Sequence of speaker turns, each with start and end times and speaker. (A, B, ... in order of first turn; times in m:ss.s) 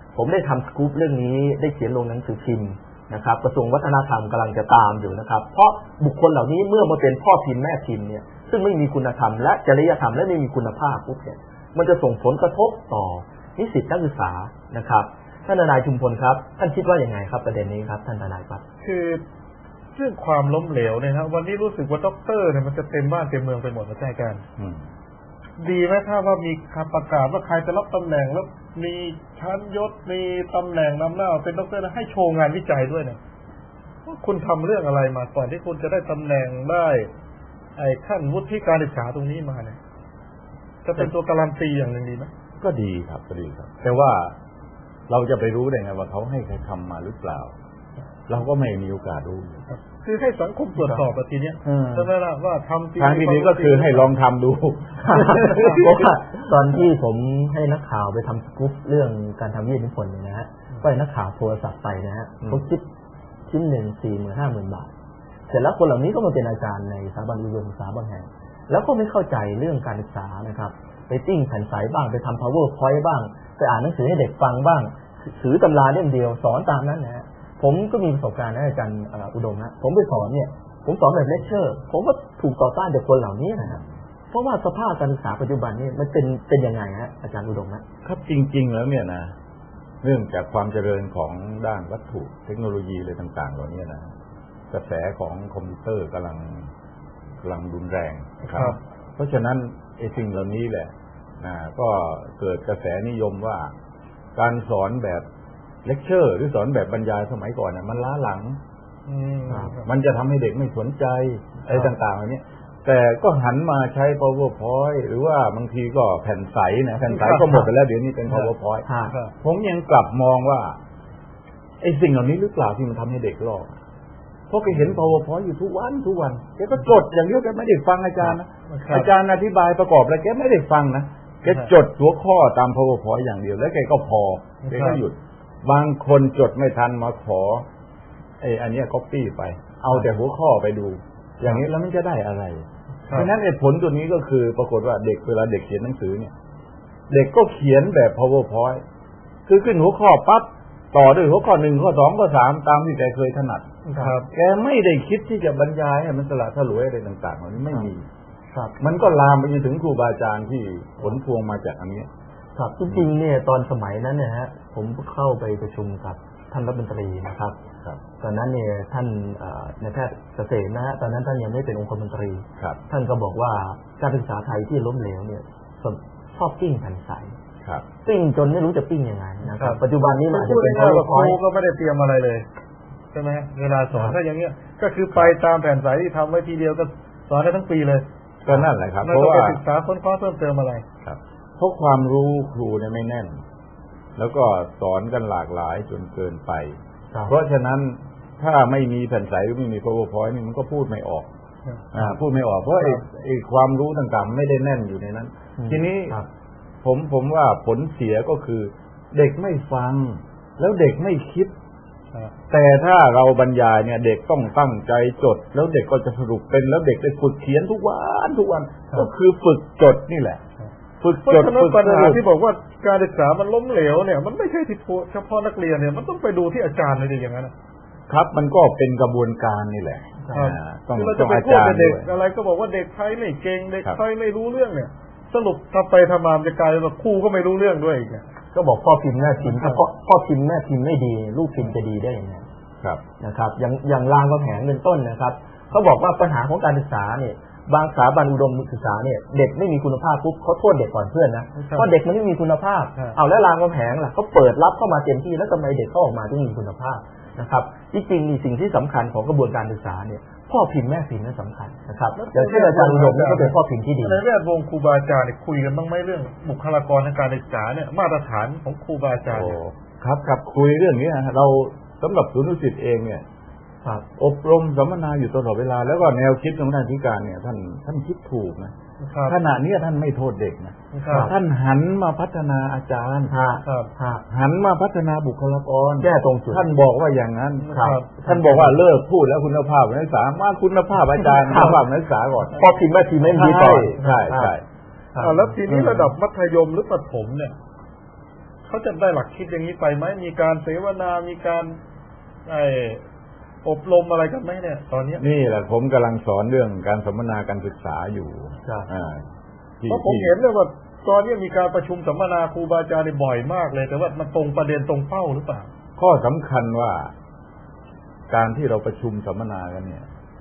0:00.1-0:18.6 A
0:18.8-0:19.2 B
0:19.9-0:24.4 B
0:25.6-0:33.2 B
0:34.0-0:37.1 B
0:37.8-0:39.8 B
0:40.8-0:42.3 B
0:42.6-0:44.4 C
0:45.1-0:47.5 C
0:48.3-0:49.6 C
0:49.7-0:54.1 B
0:51.6-0:52.1 C
0:53.0-0:55.9 C
0:55.0-1:02.8 A
1:03.5-1:04.9 A
1:05.5-1:27.8 A
1:28.0-1:29.3 C
1:30.0-1:34.1 C
1:34.7-1:36.7 C
1:37.4-1:43.7 C
1:38.4-1:38.8 B
1:44.4-1:45.2 C
1:45.8-1:48.6 C
1:49.0-1:49.9 B
1:49.8-1:58.9 C
1:57.1-1:57.4 B
1:58.8-1:59.1 A
1:59.4-2:00.8 C
2:01.8-2:03.8 C
2:04.5-2:17.6 C
2:08.7-2:09.1 B
2:14.6-2:15.0 B
2:18.4-2:26.3 C
2:27.1-2:28.8 C
2:29.5-2:33.7 C
2:33.8-2:34.1 A
2:34.0-2:34.3 B
2:34.3-2:38.0 C
2:38.8-2:42.1 C
2:42.6-2:47.6 A
2:48.2-2:57.4 A
2:58.0-3:01.4 A
2:59.5-3:02.5 B
3:03.1-3:08.0 B
3:08.4-3:09.6 C
3:09.0-3:10.8 B
3:11.0-3:13.4 C
3:14.2-3:21.3 C
3:21.9-3:26.2 C
3:25.6-3:26.3 A
3:26.8-3:31.5 C
3:32.5-3:40.4 C
3:41.0-3:42.2 C
3:41.2-3:47.5 B
3:48.1-3:52.1 C
3:50.3-3:58.2 B
3:58.5-4:02.4 A
3:59.4-3:59.8 B
4:03.2-4:24.2 A
4:11.5-4:11.9 B
4:22.2-4:29.6 B
4:29.3-4:33.2 C
4:34.2-4:38.7 C
4:39.0-4:39.4 B
4:39.2-4:43.3 C
4:40.9-4:41.3 B
4:41.1-4:41.3 A
4:43.3-4:44.2 A
4:43.6-4:43.9 B
4:44.3-4:52.6 C
4:46.0-4:46.6 A
4:47.6-4:48.1 B
4:47.7-4:48.8 A
4:51.2-4:51.8 A
4:52.5-4:54.5 A
4:53.3-4:54.6 C
4:55.1-4:55.5 A
4:55.2-4:57.6 B
4:55.7-4:56.1 C
4:58.7-5:01.8 B
5:02.4-5:03.0 B
5:03.6-5:05.2 B
5:05.2-5:09.2 C
5:08.6-5:08.9 A
5:09.8-5:10.3 C
5:09.9-5:15.7 B
5:16.0-5:17.1 C
5:18.3-5:20.1 C